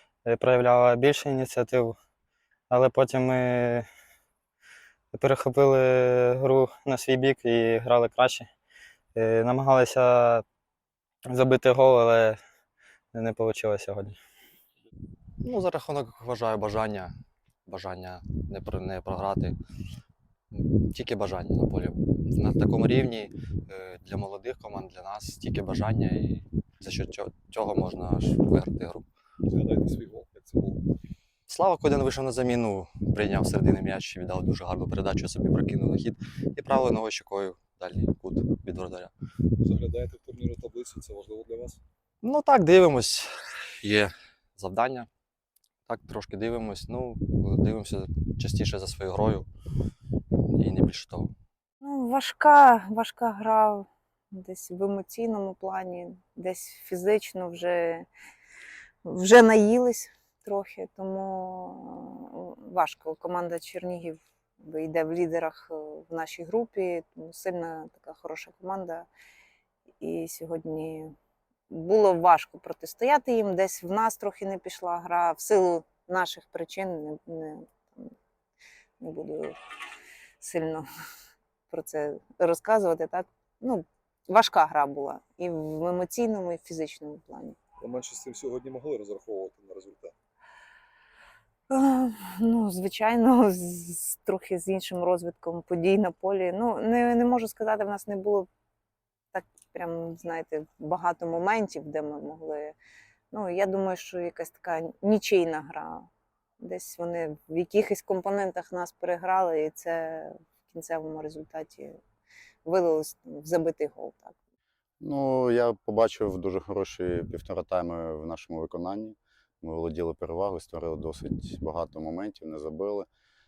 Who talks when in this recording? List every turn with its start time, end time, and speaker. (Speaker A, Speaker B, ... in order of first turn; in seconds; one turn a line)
Speaker A: 0.3-2.0
Speaker A: 2.7-3.9
Speaker A: 5.1-8.5
Speaker A: 9.2-10.4
Speaker A: 11.3-12.4
Speaker A: 13.1-14.2
Speaker B: 15.4-17.1
Speaker B: 17.7-19.6
Speaker B: 20.5-29.1
Speaker C: 29.5-30.8
Speaker B: 31.5-39.1
Speaker C: 39.6-41.8
Speaker B: 42.2-45.1
Speaker B: 45.9-49.5
Speaker B: 50.5-51.3
Speaker D: 51.8-58.1
Speaker D: 59.0-69.1
Speaker D: 70.0-71.2
Speaker D: 71.7-78.1
Speaker D: 79.0-79.6
Speaker D: 80.4-80.9
Speaker D: 81.7-87.6
Speaker C: 87.8-90.1
Speaker D: 91.7-98.5
Speaker D: 99.3-102.8
Speaker D: 103.3-106.1
Speaker D: 106.6-112.0
Speaker D: 112.7-114.3
Speaker E: 115.0-123.1